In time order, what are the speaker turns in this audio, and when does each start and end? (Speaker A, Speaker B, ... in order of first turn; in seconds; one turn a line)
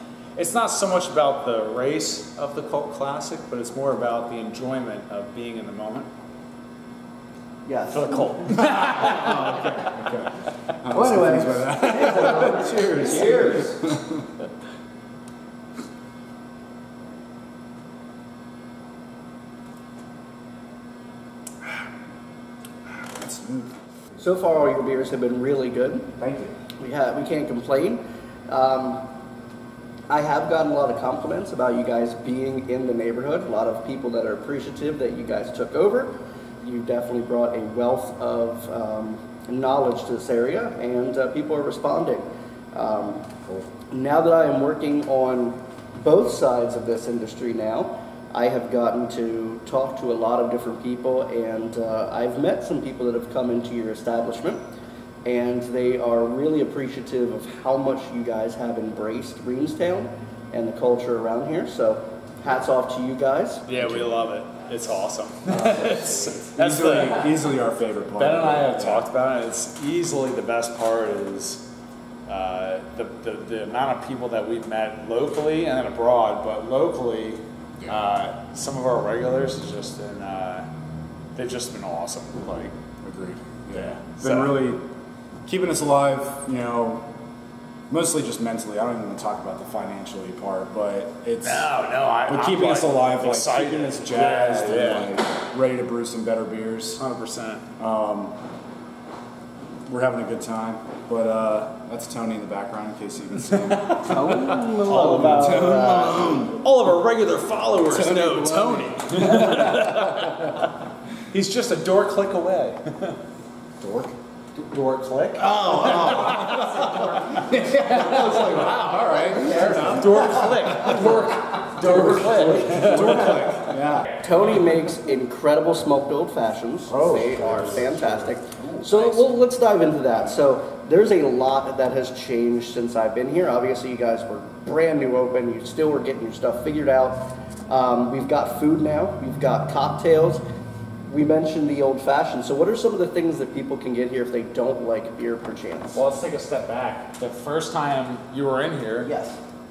Speaker A: 0.4-6.1
Speaker B: 7.7-8.3
Speaker A: 7.9-9.9
Speaker C: 8.5-14.3
Speaker B: 10.9-13.8
Speaker C: 22.9-23.7
Speaker B: 24.2-26.2
Speaker C: 26.2-26.6
Speaker B: 26.8-29.1
Speaker B: 30.1-43.3
Speaker B: 43.9-54.6
Speaker B: 55.2-63.8
Speaker A: 63.7-67.3
Speaker B: 65.5-66.4
Speaker C: 66.5-69.1
Speaker A: 68.2-71.7
Speaker A: 72.3-80.7
Speaker A: 81.4-82.7
Speaker C: 83.0-84.8
Speaker A: 83.7-84.6
Speaker C: 85.5-87.1
Speaker C: 87.9-91.7
Speaker A: 91.4-95.2
Speaker C: 92.3-97.0
Speaker A: 97.0-97.7
Speaker C: 97.8-98.4
Speaker C: 99.9-106.7
Speaker A: 103.5-113.2
Speaker B: 104.0-106.2
Speaker C: 107.9-110.3
Speaker C: 113.8-114.2
Speaker A: 114.5-124.4
Speaker C: 115.4-124.1
Speaker B: 119.3-120.2
Speaker B: 120.8-121.3
Speaker B: 121.9-122.8
Speaker B: 124.2-140.4
Speaker C: 126.9-129.1
Speaker B: 141.1-146.0
Speaker A: 145.9-149.1
Speaker B: 149.0-149.4